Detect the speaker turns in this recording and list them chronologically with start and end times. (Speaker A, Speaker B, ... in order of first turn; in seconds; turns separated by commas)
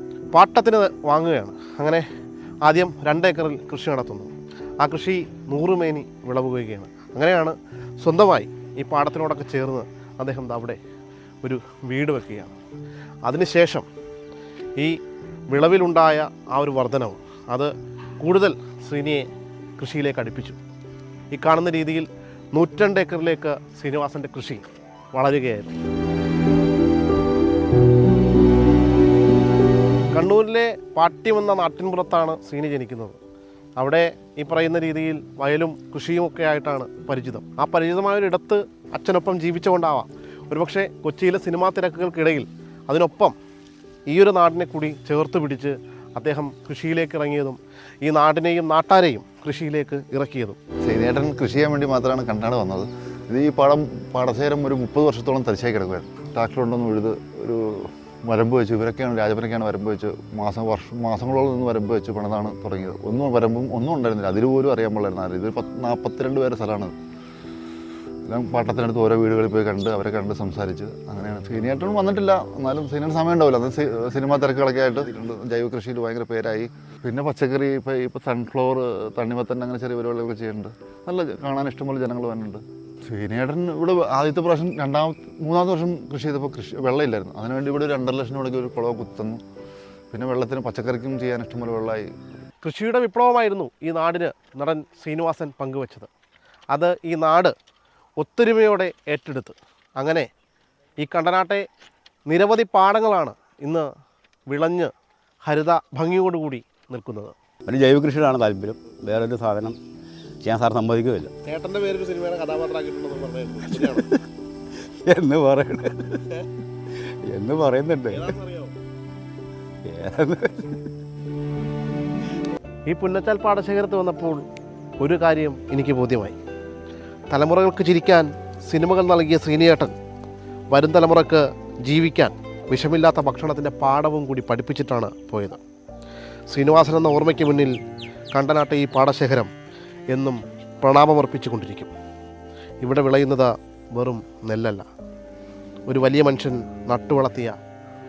Speaker A: 0.3-2.1, Speaker A: 2.6-10.8, Speaker A: 11.4-12.5, Speaker A: 13.2-13.9, Speaker A: 15.5-20.6, Speaker A: 21.3-25.8, Speaker A: 30.1-33.2, Speaker A: 33.8-43.4, Speaker A: 44.1-50.6, Speaker B: 50.8-66.9, Speaker B: 68.3-89.4, Speaker B: 90.1-92.1, Speaker A: 92.6-96.1, Speaker A: 96.7-97.5, Speaker A: 98.2-100.3, Speaker A: 101.0-101.7, Speaker A: 102.3-103.9, Speaker A: 104.5-104.9, Speaker A: 105.5-107.3, Speaker C: 107.7-109.8, Speaker C: 110.4-111.3, Speaker A: 111.4-114.2, Speaker C: 113.7-114.1, Speaker C: 115.1-116.4, Speaker C: 117.3-118.4, Speaker A: 118.1-118.7, Speaker C: 119.8-120.9, Speaker A: 122.9-124.5, Speaker A: 125.0-126.4, Speaker A: 127.3-129.9, Speaker A: 130.7-135.6, Speaker A: 136.5-137.8, Speaker A: 138.3-139.5, Speaker A: 140.1-141.9, Speaker A: 142.8-144.9, Speaker A: 145.9-147.6